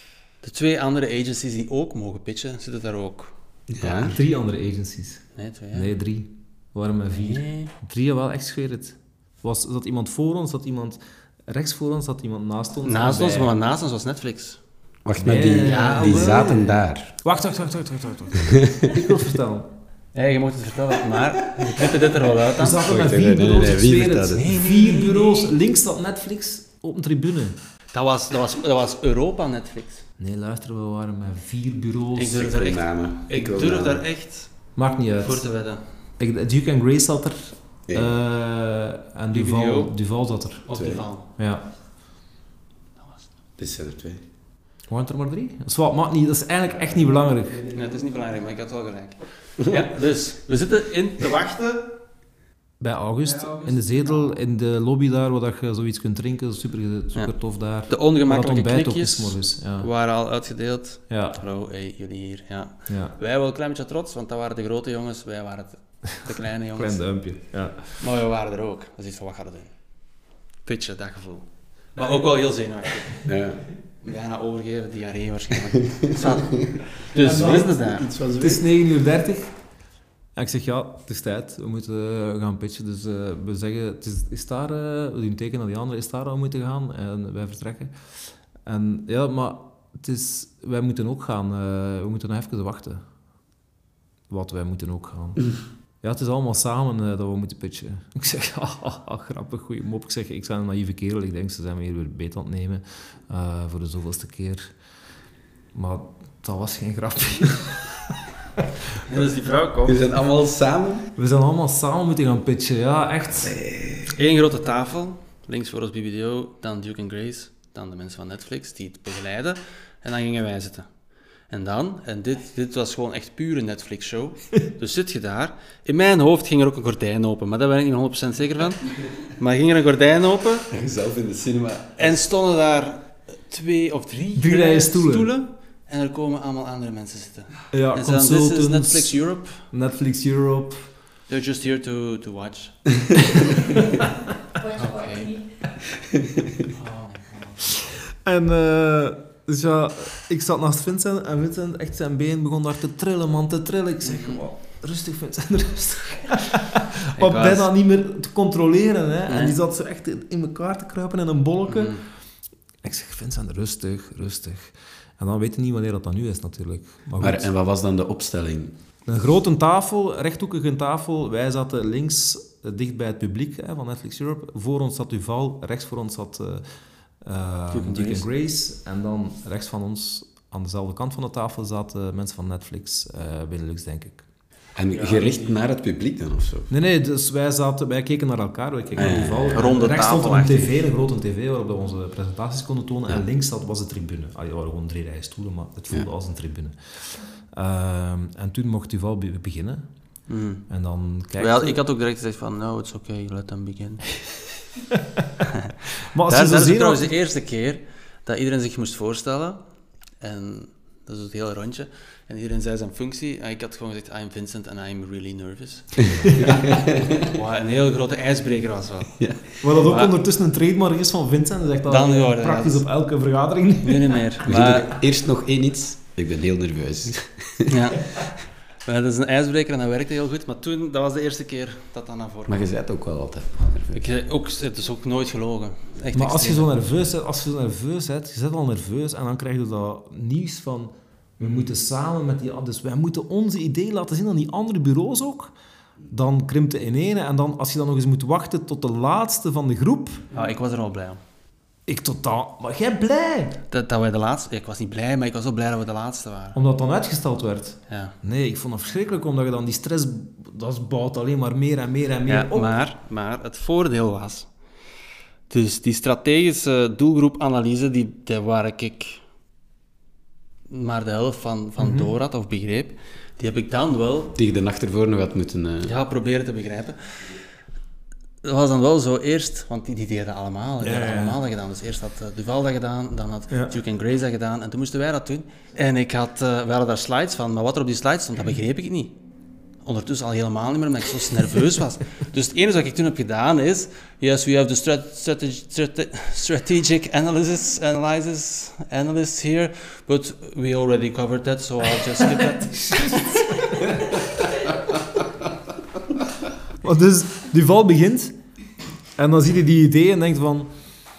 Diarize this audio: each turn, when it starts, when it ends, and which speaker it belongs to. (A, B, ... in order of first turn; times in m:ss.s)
0:00.4-0:04.2 A
0:03.7-0:04.1 B
0:04.0-0:13.5 C
0:05.3-0:05.9 A
0:07.1-0:07.7 A
0:12.8-0:14.6 A
0:15.0-0:17.1 B
0:15.2-0:19.7 C
0:15.5-0:16.5 A
0:20.1-0:22.8 A
0:22.6-0:27.6 C
0:22.8-0:24.4 B
0:24.3-0:25.6 A
0:27.9-0:30.0 A
0:30.2-0:32.5 C
0:32.2-0:35.8 A
0:32.3-0:34.0 B
0:34.8-0:35.5 C
0:36.2-0:41.7 C
0:37.9-0:38.2 B
0:39.3-0:40.0 A
0:40.6-0:41.3 A
0:40.7-0:41.0 B
0:43.6-0:44.2 B
0:44.9-0:47.6 C
0:47.6-0:51.8 A
0:52.8-0:59.9 C
0:53.5-0:53.7 A
0:57.8-1:07.0 A
1:01.1-1:01.4 C
1:02.9-1:03.1 C
1:06.7-1:08.0 C
1:08.0-1:09.7 A
1:10.6-1:13.3 A
1:13.2-1:13.6 B
1:14.0-1:18.1 A
1:17.2-1:17.7 C
1:17.2-1:18.6 B
1:18.4-1:19.5 C
1:20.4-1:27.9 C
1:28.6-1:33.0 C
1:34.3-1:44.7 C
1:45.7-1:48.6 C
1:49.0-1:50.2 A
1:49.8-1:51.1 B
1:51.2-1:53.6 C
1:53.7-1:54.0 B
1:54.1-2:00.8 A
2:01.5-2:10.6 A
2:10.7-2:12.2 B
2:12.0-2:19.6 A
2:14.4-2:15.3 C
2:17.7-2:20.8 C
2:21.3-2:24.0 A
2:24.6-2:25.4 A
2:26.6-2:27.7 A
2:28.2-2:42.0 C
2:34.0-2:34.4 A
2:37.1-2:37.7 A
2:39.3-2:39.6 A
2:41.7-2:42.0 A
2:42.8-2:47.5 C
2:47.2-2:48.7 B
2:49.1-2:56.6 C
2:57.2-3:04.2 C
2:57.7-2:58.3 A
3:04.8-3:06.7 B
3:04.9-3:05.6 A
3:06.7-3:19.8 C
3:09.0-3:09.7 B
3:09.5-3:10.8 A
3:20.3-3:20.7 A
3:20.7-3:21.8 C
3:21.4-3:24.0 A
3:26.1-3:27.0 C
3:26.3-3:29.6 A
3:30.2-3:39.2 A
3:36.5-3:36.9 B
3:39.6-3:44.8 C
3:39.8-3:40.2 A
3:41.8-3:42.8 A
3:43.8-3:44.9 A
3:44.4-3:47.7 B
3:47.7-3:48.2 A
3:48.8-3:52.7 A
3:52.5-3:54.0 B
3:53.9-3:56.7 A
3:56.1-4:05.5 C
4:01.4-4:01.7 A
4:06.1-4:10.3 C
4:10.3-4:11.2 A
4:11.9-4:13.6 C
4:13.7-4:16.6 A
4:16.5-4:22.7 C
4:17.9-4:18.2 A
4:22.2-4:24.5 A
4:25.5-4:29.2 A
4:30.7-4:34.4 A
4:31.8-4:32.1 C
4:34.3-4:35.9 B
4:35.8-4:37.4 A
4:38.4-4:49.2 A
4:40.8-4:41.4 C
4:49.8-5:03.4 A
5:06.8-5:08.3 C
5:09.2-5:10.7 C